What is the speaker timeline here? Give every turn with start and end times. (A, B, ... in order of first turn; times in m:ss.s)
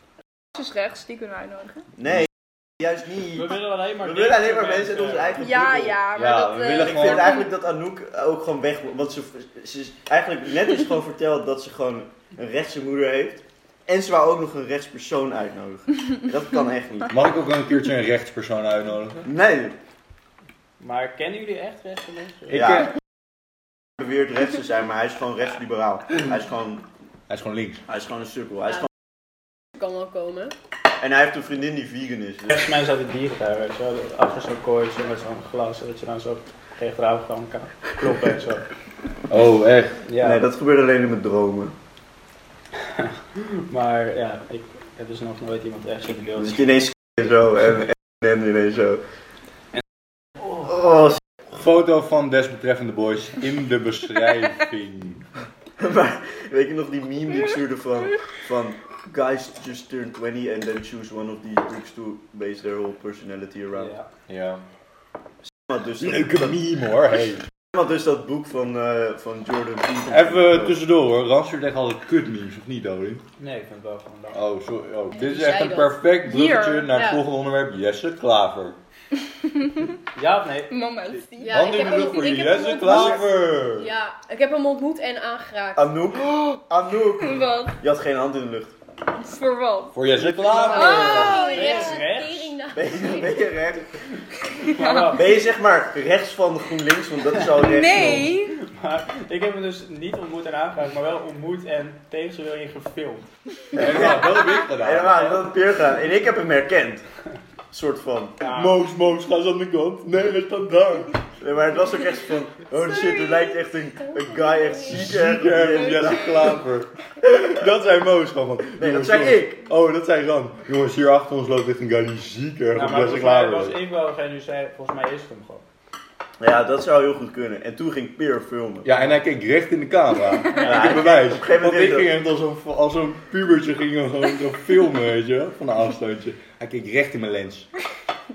0:00.5-0:01.8 A
0:02.0-0:06.0 B
0:03.3-0:05.4 C
0:05.4-0:07.5 A
0:06.1-0:07.3 D
0:06.7-0:17.1 B
0:17.1-0:19.3 D
0:19.2-0:19.8 B
0:20.8-0:22.7 C
0:22.5-0:22.9 D
0:22.5-0:22.9 B
0:24.0-0:26.8 B
0:27.3-0:27.8 D
0:27.9-0:28.9 B
0:29.8-0:30.5 E
0:31.0-0:32.6 B
0:32.5-0:38.6 C
0:39.3-0:40.0 D
0:40.0-0:40.4 C
0:40.2-0:41.7 B
0:42.9-0:46.7 C
0:46.4-0:49.0 B
0:50.6-0:51.2 B
0:51.5-0:55.2 D
0:55.8-1:03.9 B
1:03.7-1:04.1 C
1:04.3-1:04.6 D
1:05.5-1:06.6 B
1:06.0-1:07.4 D
1:07.7-1:10.8 B
1:10.1-1:13.2 D
1:13.4-1:14.4 C
1:14.3-1:18.8 D
1:15.1-1:16.0 E
1:16.2-1:16.9 A
1:16.9-1:17.2 E
1:19.5-1:19.8 A
1:20.1-1:20.7 C
1:20.7-1:22.8 A
1:21.4-1:26.0 E
1:21.5-1:23.9 D
1:25.8-1:28.7 B
1:27.2-1:27.8 A
1:29.2-1:29.9 A
1:29.9-1:31.4 D
1:30.5-1:33.5 E
1:30.6-1:32.6 C
1:30.7-1:31.9 A
1:32.7-1:33.9 B
1:34.6-1:35.4 C
1:34.8-1:35.2 A
1:35.0-1:38.3 B
1:37.5-1:38.5 A
1:37.8-1:43.3 C
1:43.7-1:45.5 D
1:43.8-1:47.0 B
1:47.7-1:48.4 B
1:48.4-1:48.8 C
1:48.5-1:51.2 D
1:51.4-1:56.6 B
1:54.8-2:03.8 D
1:55.7-1:56.4 A
1:58.8-1:59.5 B
2:02.7-2:05.6 C
2:06.4-2:08.9 B
2:08.8-2:17.7 D
2:10.5-2:12.1 B